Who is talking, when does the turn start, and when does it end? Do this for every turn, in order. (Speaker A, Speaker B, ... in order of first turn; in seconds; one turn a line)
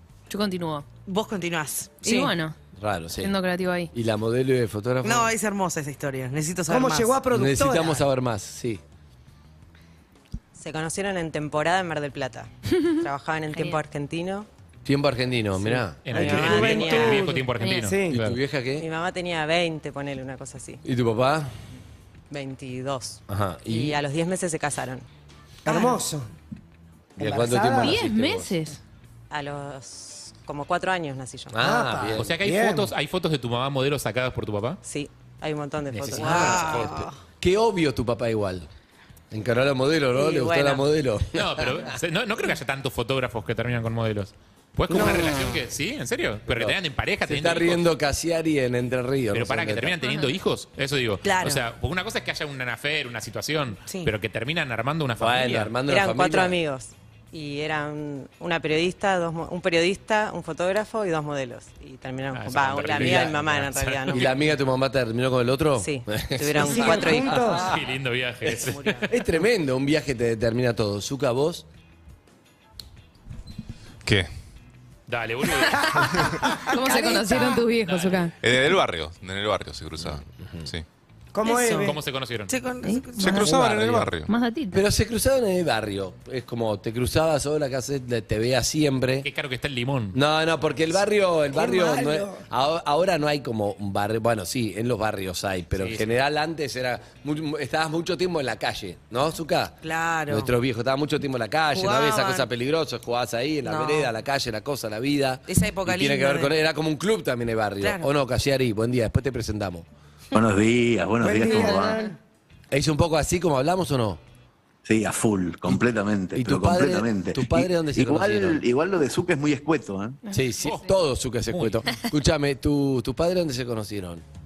Speaker A: 0.3-0.8
Speaker B: 1.1-2.3
Speaker A: 2.0-2.5
Speaker C: 2.8-3.3
Speaker A: 3.2-3.9
Speaker C: 3.9-5.3
Speaker B: 5.0-7.2
Speaker D: 6.7-8.1
Speaker C: 7.3-8.8
Speaker E: 10.5-14.5
Speaker A: 13.5-13.8
Speaker C: 14.8-16.9
Speaker F: 16.0-18.4
Speaker E: 16.1-17.4
Speaker D: 16.4-18.2
Speaker A: 17.6-17.9
Speaker C: 18.1-18.9
Speaker E: 18.7-20.8
Speaker C: 20.8-21.5
Speaker E: 22.3-25.0
Speaker C: 23.3-24.0
Speaker D: 25.6-26.3
Speaker C: 27.2-28.5
Speaker D: 27.2-28.0
Speaker A: 27.8-28.8
Speaker E: 29.3-31.7
Speaker C: 31.5-32.3
Speaker D: 31.6-32.9
Speaker F: 32.1-34.8
Speaker E: 34.8-36.8
Speaker F: 35.9-37.1
Speaker B: 36.1-37.1
Speaker C: 37.4-38.7
Speaker C: 39.3-41.8
Speaker E: 40.1-40.8
Speaker F: 41.3-47.9
Speaker C: 44.9-45.4
Speaker C: 46.5-50.0
Speaker F: 49.3-55.7
Speaker A: 50.0-50.3
Speaker B: 51.2-51.6
Speaker C: 55.2-56.6
Speaker E: 55.8-64.5
Speaker F: 62.3-64.3
Speaker C: 62.9-63.3
Speaker C: 64.1-67.6
Speaker E: 65.8-67.6
Speaker D: 66.5-67.8
Speaker F: 67.4-69.1
Speaker E: 68.4-69.1
Speaker C: 69.1-71.7
Speaker G: 74.0-74.3
Speaker F: 75.1-76.3
Speaker A: 75.7-78.3
Speaker D: 76.4-77.6
Speaker F: 77.8-78.3
Speaker G: 78.4-80.8
Speaker D: 81.3-82.0
Speaker B: 81.4-82.0
Speaker F: 81.7-82.5
Speaker B: 82.5-83.8
Speaker G: 83.2-84.3
Speaker A: 83.2-83.5
Speaker C: 83.4-84.1
Speaker A: 84.2-84.8
Speaker C: 84.7-89.3
Speaker F: 89.2-90.2
Speaker C: 90.1-109.8
Speaker D: 91.5-92.4
Speaker F: 95.8-96.0
Speaker B: 99.8-100.5
Speaker B: 101.7-102.5
Speaker B: 103.6-104.1
Speaker B: 105.5-106.5
Speaker H: 110.3-112.0
Speaker D: 111.2-112.2
Speaker A: 111.5-112.1
Speaker C: 112.7-114.2
Speaker H: 114.8-120.2
Speaker C: 116.3-118.6
Speaker A: 120.2-120.9
Speaker C: 120.3-124.2
Speaker F: 120.6-120.9
Speaker F: 121.5-121.9